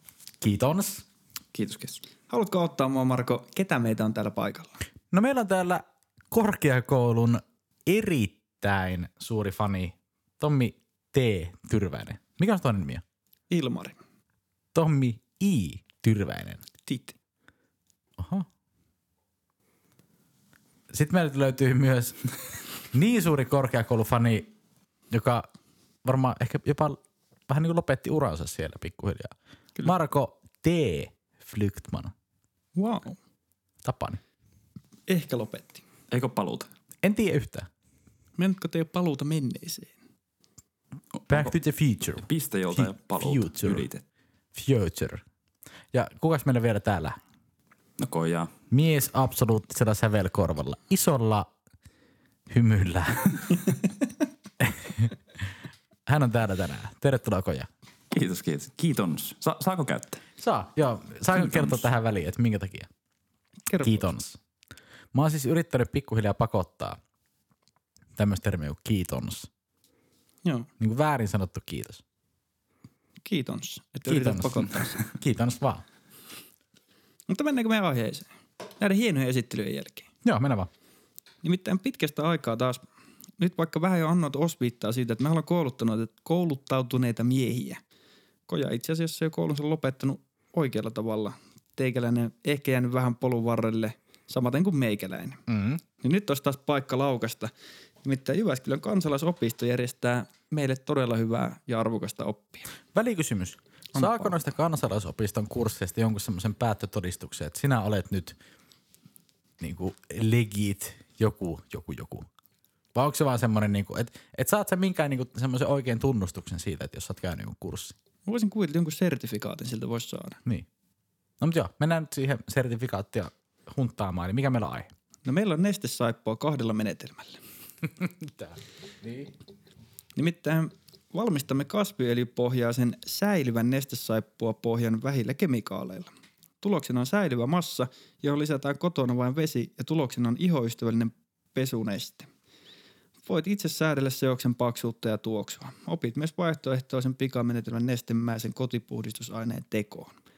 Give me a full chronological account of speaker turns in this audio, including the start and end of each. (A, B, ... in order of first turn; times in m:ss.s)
0:00.4-0:01.0 A
0:01.5-0:02.0 B
0:02.3-0:04.8 C
0:05.1-0:13.0 A
0:13.5-0:14.0 C
0:14.7-0:16.6 A
0:16.8-0:17.2 C
0:18.2-0:18.5 A
0:20.9-0:22.3 A
0:22.9-0:24.5 A
0:25.1-0:25.5 A
0:26.0-0:27.0 A
0:27.5-0:32.1 A
0:32.8-0:33.2 C
0:33.8-0:34.2 A
0:35.1-0:35.8 C
0:36.1-0:36.7 B
0:37.0-0:37.7 A
0:38.4-0:39.9 C
0:41.2-0:41.6 B
0:41.3-0:43.9 A
0:42.3-0:44.0 B
0:44.5-0:45.2 A
0:45.9-0:47.2 A
0:48.0-0:48.5 B
0:48.7-0:51.5 A
0:52.5-0:53.8 A
0:54.6-0:55.1 A
0:56.1-0:57.7 A
0:58.1-1:00.2 B
1:00.4-1:02.9 A
1:01.3-1:01.9 B
1:03.7-1:04.1 C
1:03.8-1:04.4 A
1:05.1-1:07.0 A
1:08.2-1:09.5 A
1:10.4-1:10.7 C
1:10.8-1:12.0 A
1:13.2-1:15.1 C
1:14.1-1:15.8 A
1:17.3-1:20.1 C
1:20.2-1:20.7 A
1:21.4-1:22.8 C
1:23.4-1:27.8 C
1:28.5-1:35.4 C
1:35.5-1:35.8 A
1:36.0-1:37.5 C
1:38.0-1:42.7 C
1:42.9-1:48.4 A
1:44.0-1:44.4 C
1:49.6-1:52.2 A
1:53.0-1:58.0 A
1:58.3-2:00.4 C
2:01.4-2:04.9 A
2:05.2-2:07.4 C
2:08.0-2:09.3 A
2:10.2-2:16.1 C
2:16.6-2:22.3 C
2:23.3-2:30.1 C